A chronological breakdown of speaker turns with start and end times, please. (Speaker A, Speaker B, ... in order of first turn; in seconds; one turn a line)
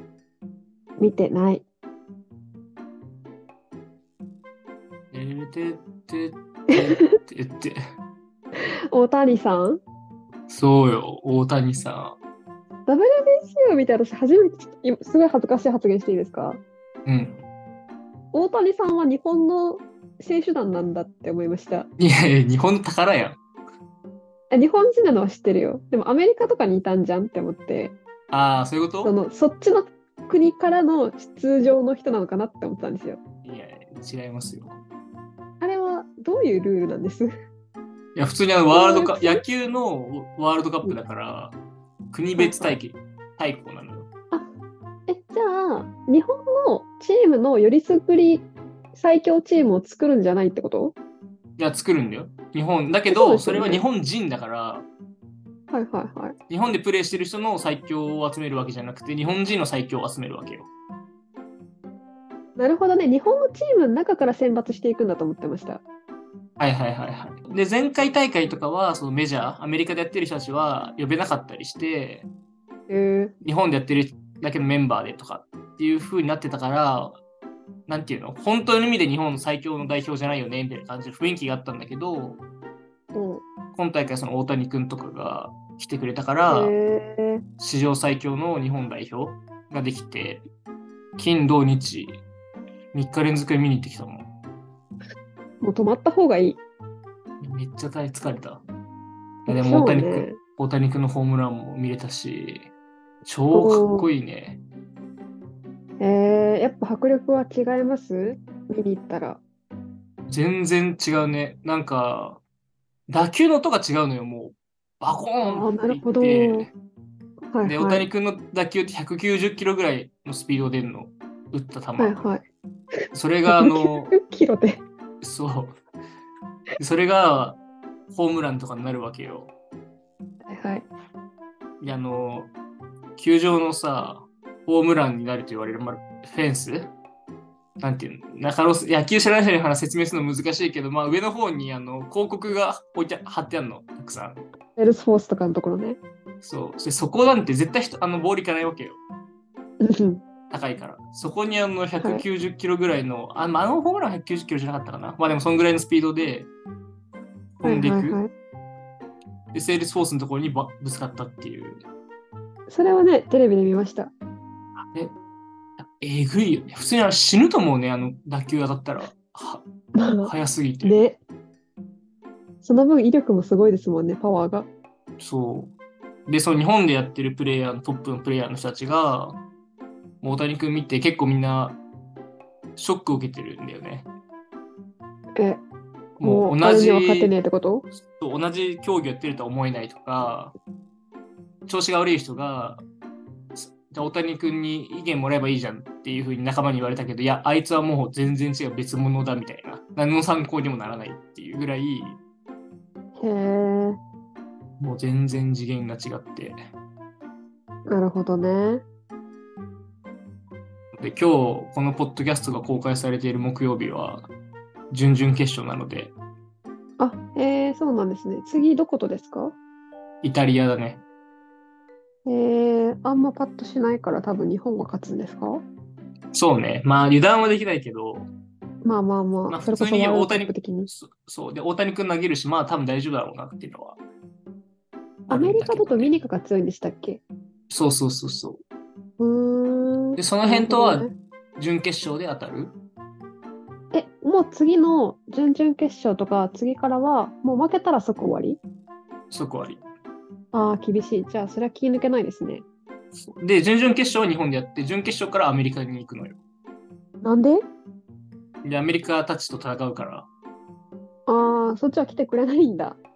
Speaker A: 1.0-1.6
Speaker B: 5.1-7.8
Speaker A: 8.6-9.8
Speaker B: 10.5-12.2
Speaker A: 12.9-16.6
Speaker B: 17.1-17.4
Speaker A: 18.3-21.9
Speaker B: 22.0-23.4
Speaker A: 24.5-28.0
Speaker B: 28.3-29.1
Speaker A: 29.0-33.2
Speaker B: 33.4-34.8
Speaker A: 35.6-37.3
Speaker B: 38.1-41.5
Speaker A: 38.7-39.4
Speaker B: 42.1-44.1
Speaker A: 42.4-42.8
Speaker A: 45.1-51.0
Speaker B: 51.6-54.9
Speaker A: 53.1-53.8
Speaker A: 55.7-56.3
Speaker B: 56.5-60.7
Speaker A: 62.6-65.8
Speaker B: 66.6-72.3
Speaker A: 72.9-73.3
Speaker B: 73.4-77.2
Speaker B: 77.9-82.4
Speaker A: 83.1-83.4
Speaker B: 83.7-86.8
Speaker A: 86.5-87.4
Speaker B: 87.6-90.5
Speaker B: 91.2-92.2
Speaker B: 92.9-94.3
Speaker A: 95.6-96.6
Speaker B: 97.4-98.6
Speaker B: 99.5-102.7
Speaker A: 99.5-100.4
Speaker B: 103.2-104.6
Speaker A: 103.5-104.1
Speaker A: 106.0-109.4
Speaker B: 110.3-112.4
Speaker B: 113.1-116.7
Speaker A: 115.4-116.7
Speaker A: 117.5-118.1
Speaker B: 117.6-122.3
Speaker A: 122.0-122.5
Speaker B: 123.1-124.2
Speaker A: 123.5-124.8
Speaker B: 125.2-125.8
Speaker B: 126.8-127.6
Speaker B: 128.1-129.5
Speaker A: 130.5-130.9
Speaker B: 131.8-132.5
Speaker B: 133.2-136.9
Speaker B: 137.8-144.5
Speaker A: 144.8-146.0
Speaker B: 146.4-149.0
Speaker A: 149.8-150.2
Speaker B: 150.5-156.5
Speaker B: 157.6-158.2
Speaker A: 157.6-158.3
Speaker B: 159.5-161.8
Speaker A: 162.7-164.1
Speaker B: 164.8-165.1
Speaker B: 165.8-169.7
Speaker A: 170.0-171.2
Speaker B: 170.2-171.0
Speaker A: 172.6-174.7
Speaker B: 175.2-175.7
Speaker B: 176.3-179.4
Speaker B: 180.2-181.8
Speaker B: 182.8-184.1
Speaker A: 185.4-185.6
Speaker B: 186.2-187.3
Speaker A: 186.2-187.9
Speaker B: 188.2-190.5
Speaker B: 191.7-192.8
Speaker B: 193.6-202.2
Speaker A: 203.2-204.0
Speaker B: 204.8-206.6
Speaker A: 207.9-208.8
Speaker B: 211.0-214.3
Speaker B: 214.9-216.2
Speaker A: 217.0-219.6
Speaker B: 220.2-221.0
Speaker A: 222.2-225.7
Speaker B: 226.3-228.3
Speaker A: 228.8-230.9
Speaker B: 229.5-234.0
Speaker B: 235.3-236.2
Speaker A: 235.3-237.2
Speaker B: 237.7-238.6
Speaker A: 239.2-241.1
Speaker B: 240.2-242.8
Speaker A: 243.9-248.6
Speaker B: 249.3-249.8
Speaker A: 250.5-252.6
Speaker B: 253.1-256.4
Speaker A: 257.2-257.7
Speaker B: 258.6-260.3
Speaker A: 261.3-263.0